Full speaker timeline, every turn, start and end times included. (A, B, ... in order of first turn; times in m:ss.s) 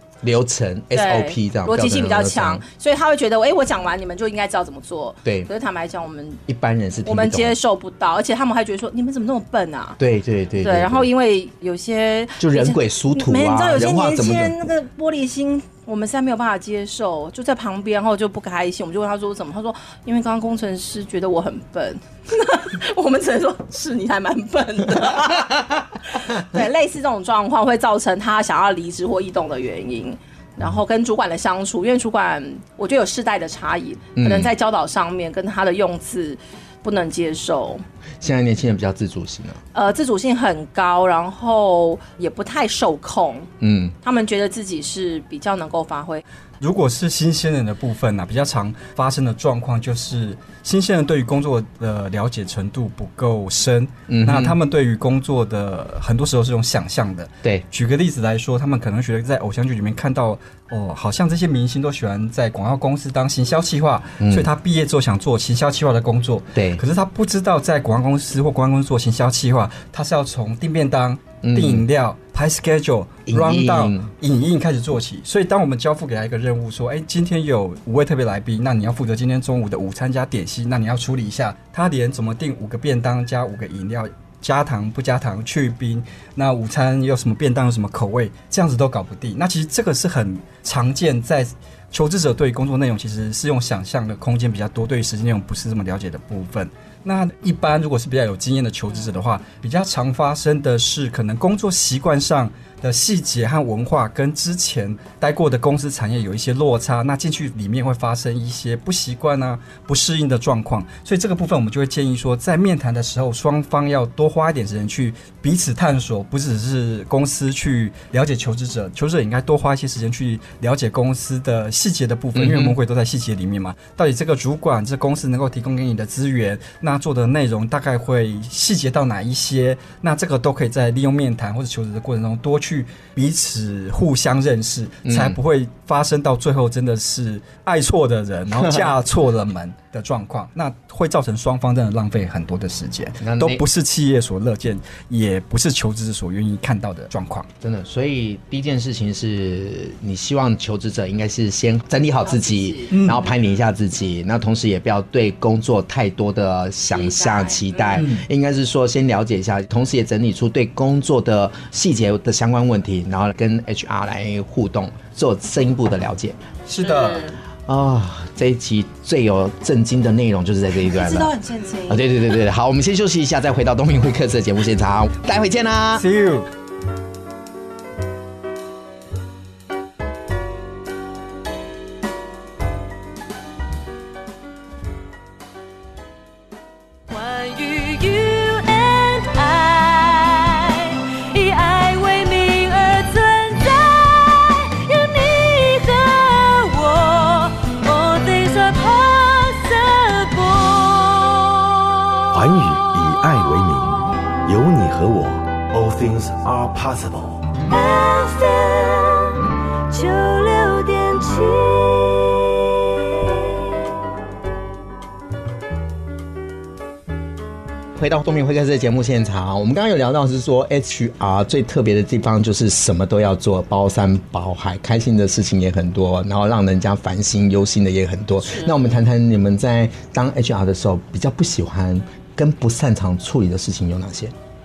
0:00.2-0:02.6 A
0:00.9-0:06.4 B
0:06.5-0:07.5 A
0:07.0-0:10.0 B
0:10.0-0:11.1 A
0:10.6-0:37.8 B
0:12.4-0:14.5 A
0:34.2-0:34.5 A
0:38.2-0:39.6 A
0:39.7-0:43.5 B
0:43.6-0:43.9 A
0:44.0-0:46.2 B
0:46.6-2:27.5 C
0:54.1-0:54.6 A
1:04.2-1:04.5 A
1:06.5-1:06.8 A
1:11.4-1:11.8 A
1:13.3-1:14.1 A
2:02.4-2:02.8 A
2:15.0-2:15.4 A
2:18.6-2:18.9 A
2:23.2-2:23.6 A
2:27.6-2:46.4 A
2:32.2-2:33.0 B
2:32.9-2:33.3 C
2:36.9-2:38.0 B
2:37.9-2:38.2 C
2:46.7-2:47.3 C
2:46.8-2:47.4 B
2:47.7-2:51.3 A
2:50.8-2:52.1 B
2:51.9-2:56.1 A
2:56.0-2:56.5 C
3:07.1-3:21.6 D
3:22.3-3:27.5 E
3:27.6-3:33.5 D
3:37.9-3:54.3 A
3:48.4-3:48.7 B